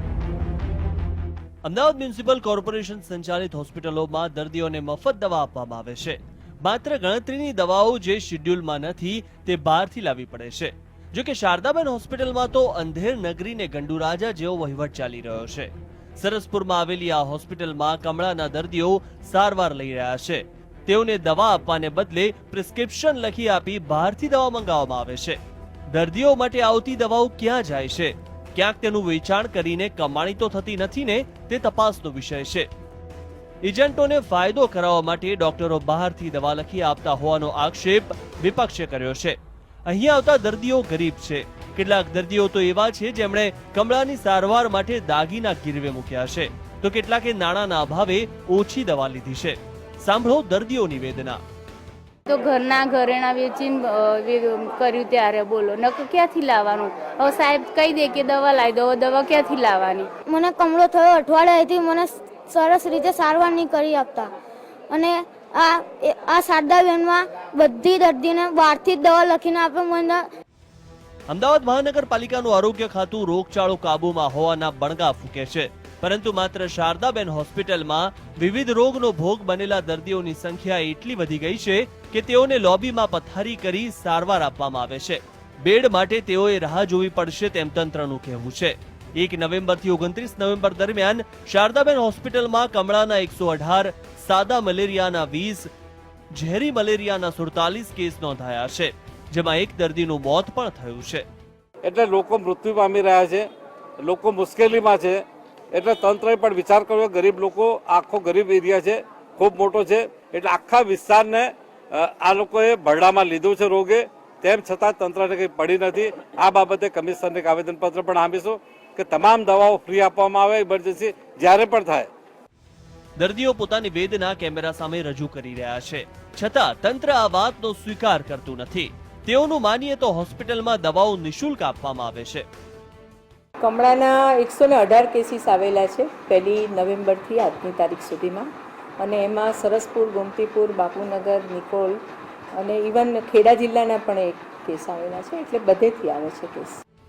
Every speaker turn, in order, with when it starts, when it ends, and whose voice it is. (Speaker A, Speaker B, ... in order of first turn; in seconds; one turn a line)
Speaker A: 1.6-25.4
Speaker A: 25.9-32.7
Speaker A: 33.6-51.4
Speaker B: 52.3-60.1
Speaker C: 60.2-64.3
Speaker C: 64.9-70.2
Speaker A: 71.3-95.7
Speaker A: 96.3-101.2
Speaker D: 101.8-103.5
Speaker D: 104.0-105.2
Speaker D: 105.7-122.1
Speaker A: 123.2-132.4
Speaker E: 133.6-138.5
Speaker E: 139.0-142.0
Speaker E: 142.5-146.8